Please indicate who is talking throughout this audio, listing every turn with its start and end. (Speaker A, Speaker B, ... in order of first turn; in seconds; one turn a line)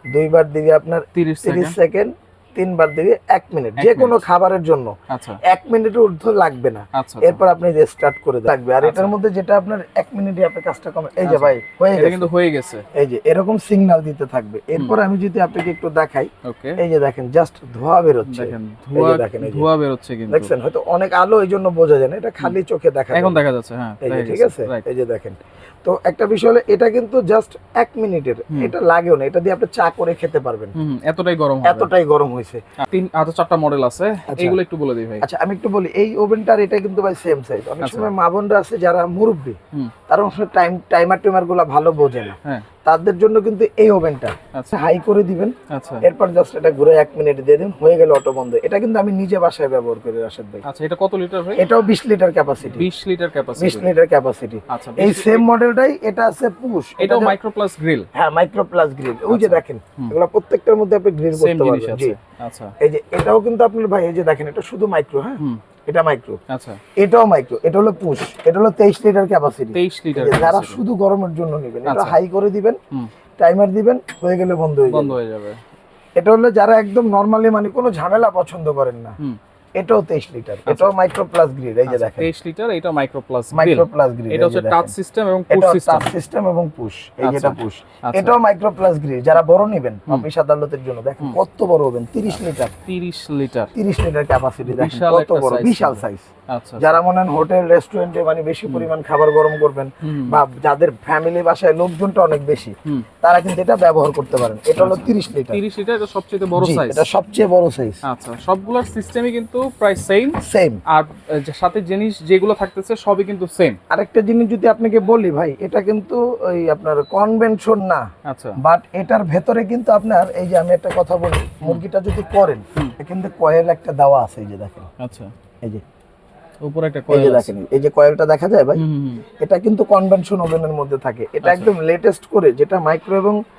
Speaker A: 0.1-12.3
Speaker B: 1.1-1.8
Speaker B: 3.8-4.2
Speaker B: 5.1-5.4
Speaker B: 6.9-7.4
Speaker B: 8.8-9.1
Speaker B: 11.2-12.8
Speaker A: 12.9-19.7
Speaker B: 16.4-16.8
Speaker B: 18.2-20.5
Speaker A: 20.3-23.4
Speaker B: 23.1-24.9
Speaker A: 24.0-30.7
Speaker B: 30.7-31.9
Speaker A: 31.6-32.6
Speaker B: 32.8-35.2
Speaker A: 34.3-34.6
Speaker A: 35.2-50.6
Speaker B: 37.8-38.1
Speaker B: 45.7-46.0
Speaker B: 50.6-51.6
Speaker A: 51.5-52.8
Speaker B: 52.6-53.9
Speaker A: 53.6-57.3
Speaker B: 54.7-55.4
Speaker B: 57.0-58.1
Speaker A: 58.1-62.1
Speaker B: 59.3-60.1
Speaker B: 61.3-62.7
Speaker A: 62.8-66.4
Speaker B: 66.5-66.8
Speaker A: 67.0-72.8
Speaker B: 69.7-70.8
Speaker B: 71.8-72.2
Speaker A: 73.4-75.1
Speaker B: 74.9-75.6
Speaker A: 76.2-79.2
Speaker A: 79.8-82.3
Speaker B: 80.7-80.9
Speaker B: 81.9-86.1
Speaker A: 83.5-84.9
Speaker A: 85.5-92.8
Speaker B: 87.2-88.4
Speaker B: 92.8-93.7
Speaker A: 93.8-105.6
Speaker B: 94.6-97.0
Speaker B: 100.0-100.4
Speaker B: 104.8-107.1
Speaker A: 106.5-108.0
Speaker B: 108.0-113.8
Speaker A: 110.4-110.8
Speaker A: 113.9-124.9
Speaker B: 118.2-118.6
Speaker B: 125.0-125.3
Speaker B: 126.6-127.5
Speaker A: 127.1-128.8
Speaker B: 128.7-129.2
Speaker A: 129.4-133.4
Speaker B: 131.4-131.7